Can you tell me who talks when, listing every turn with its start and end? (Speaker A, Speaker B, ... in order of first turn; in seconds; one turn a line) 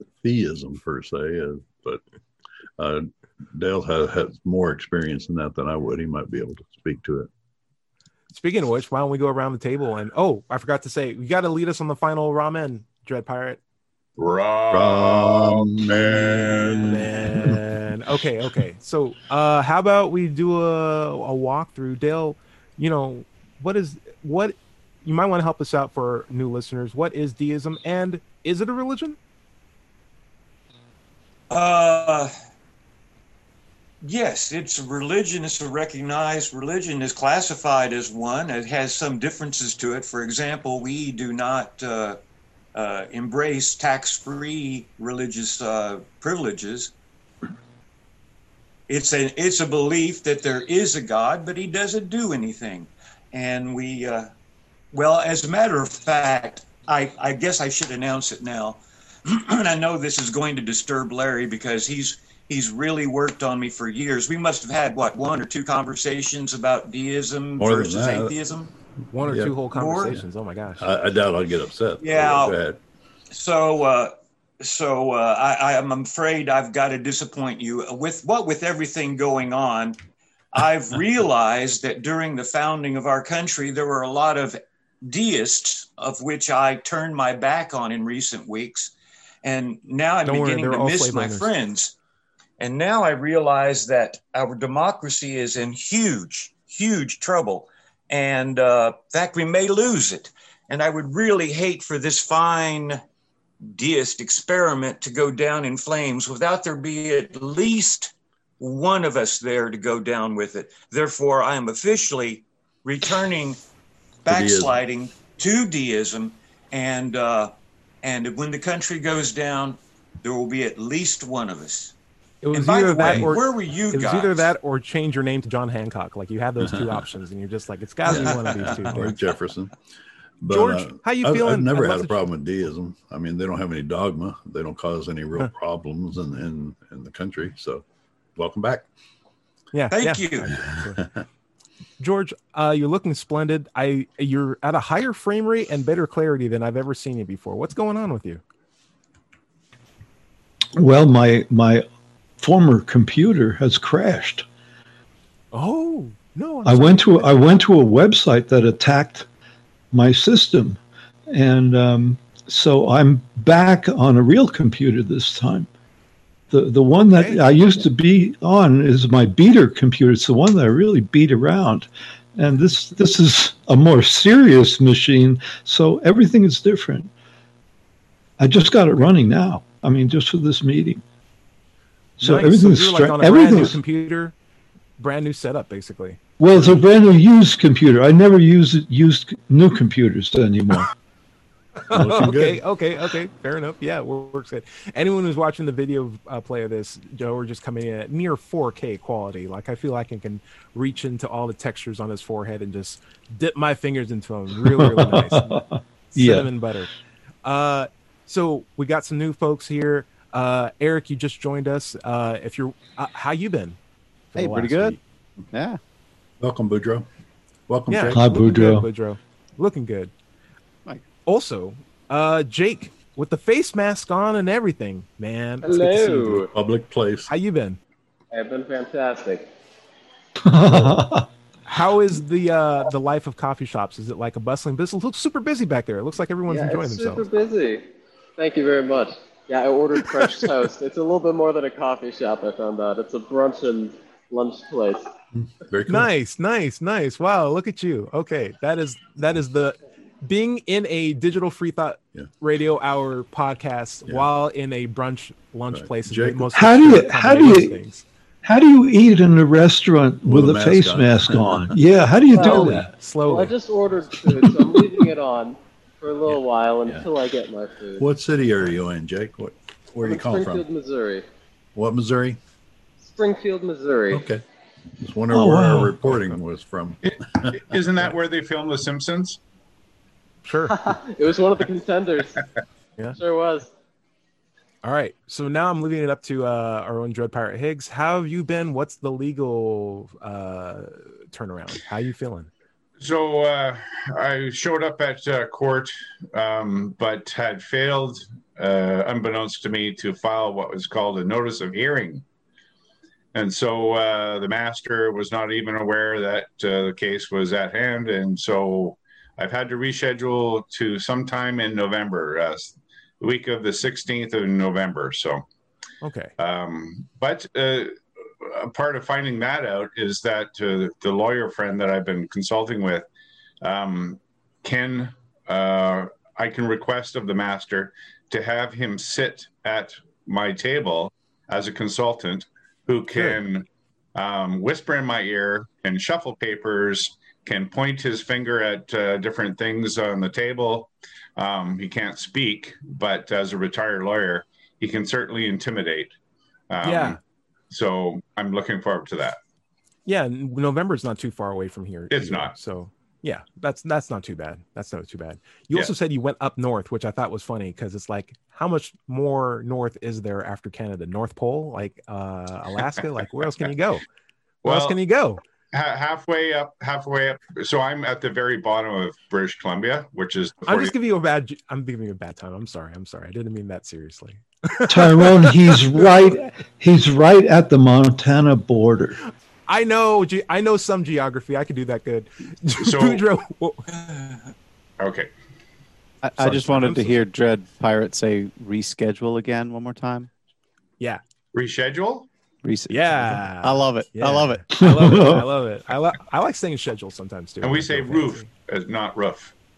Speaker A: 0.2-2.0
Speaker A: 2.8-7.3
Speaker B: 8.3-13.6
Speaker C: 14.2-16.8
Speaker A: 14.7-17.6
Speaker B: 16.8-29.2
Speaker D: 31.5-32.3
Speaker D: 34.0-42.2
Speaker D: 42.7-46.9
Speaker D: 48.9-54.3
Speaker D: 54.9-68.7
Speaker A: 67.6-68.4
Speaker B: 69.1-70.9
Speaker A: 69.2-70.2
Speaker D: 69.7-70.1
Speaker A: 70.8-72.8
Speaker D: 72.0-72.5
Speaker D: 73.3-80.0
Speaker D: 80.5-88.9
Speaker D: 89.4-91.9
Speaker B: 90.2-91.5
Speaker D: 92.6-103.0
Speaker D: 103.6-113.6
Speaker A: 114.2-114.8
Speaker D: 114.2-117.5
Speaker D: 118.0-121.9
Speaker B: 122.4-129.2
Speaker D: 122.5-124.5
Speaker A: 123.0-123.3
Speaker A: 126.6-127.0
Speaker A: 128.0-129.7
Speaker A: 130.4-137.8
Speaker B: 130.5-132.2
Speaker A: 138.3-138.8
Speaker B: 139.7-141.1
Speaker D: 139.9-140.5
Speaker A: 140.4-141.2
Speaker B: 142.0-148.4
Speaker E: 150.8-151.8
Speaker E: 152.4-154.4
Speaker B: 155.5-157.4
Speaker E: 156.6-159.3
Speaker E: 159.9-165.7
Speaker E: 166.5-177.1
Speaker B: 167.1-167.4
Speaker E: 178.4-181.0
Speaker E: 182.2-183.8
Speaker B: 182.2-184.3
Speaker B: 185.0-186.2
Speaker E: 186.4-190.9
Speaker B: 191.9-206.9
Speaker A: 191.9-192.6
Speaker E: 204.6-206.5
Speaker B: 207.4-213.8
Speaker B: 214.3-215.0
Speaker F: 214.3-215.0
Speaker F: 215.5-215.8
Speaker A: 216.4-217.1
Speaker A: 217.7-218.3
Speaker B: 217.9-220.1
Speaker E: 218.1-218.9
Speaker B: 221.2-226.4
Speaker G: 225.6-226.5
Speaker A: 226.5-227.3
Speaker B: 227.3-227.8
Speaker G: 228.3-229.5
Speaker E: 230.4-231.2
Speaker A: 230.7-231.0
Speaker B: 231.7-237.3
Speaker G: 236.5-245.1
Speaker A: 245.3-246.1
Speaker B: 245.9-258.0
Speaker A: 255.7-256.6
Speaker E: 256.5-257.8
Speaker E: 258.4-262.9
Speaker A: 260.2-261.8
Speaker G: 262.3-268.1
Speaker B: 262.4-263.5
Speaker A: 268.0-270.6
Speaker G: 270.0-271.2
Speaker A: 271.7-272.4
Speaker G: 273.0-274.3
Speaker A: 274.1-274.4
Speaker A: 275.0-277.8
Speaker E: 275.3-276.1
Speaker C: 277.5-279.4
Speaker B: 280.4-280.8
Speaker G: 280.7-282.4
Speaker G: 283.1-283.7
Speaker B: 284.8-292.5
Speaker C: 293.0-302.2
Speaker C: 303.3-315.4
Speaker B: 316.0-316.3
Speaker C: 316.4-323.1
Speaker C: 323.6-346.1
Speaker C: 346.7-347.2
Speaker B: 346.8-347.2
Speaker C: 347.7-349.4
Speaker B: 350.1-364.0
Speaker C: 352.1-352.6
Speaker C: 364.6-365.0
Speaker B: 364.6-365.4
Speaker C: 365.7-370.9
Speaker B: 370.6-376.1
Speaker E: 374.9-379.2
Speaker B: 379.7-383.8
Speaker C: 382.8-383.2
Speaker D: 383.9-384.5
Speaker C: 385.0-385.3
Speaker F: 386.2-390.3
Speaker B: 386.4-387.2
Speaker C: 391.5-392.3
Speaker F: 392.6-394.6
Speaker B: 392.9-398.5
Speaker E: 394.7-395.5
Speaker C: 397.6-399.5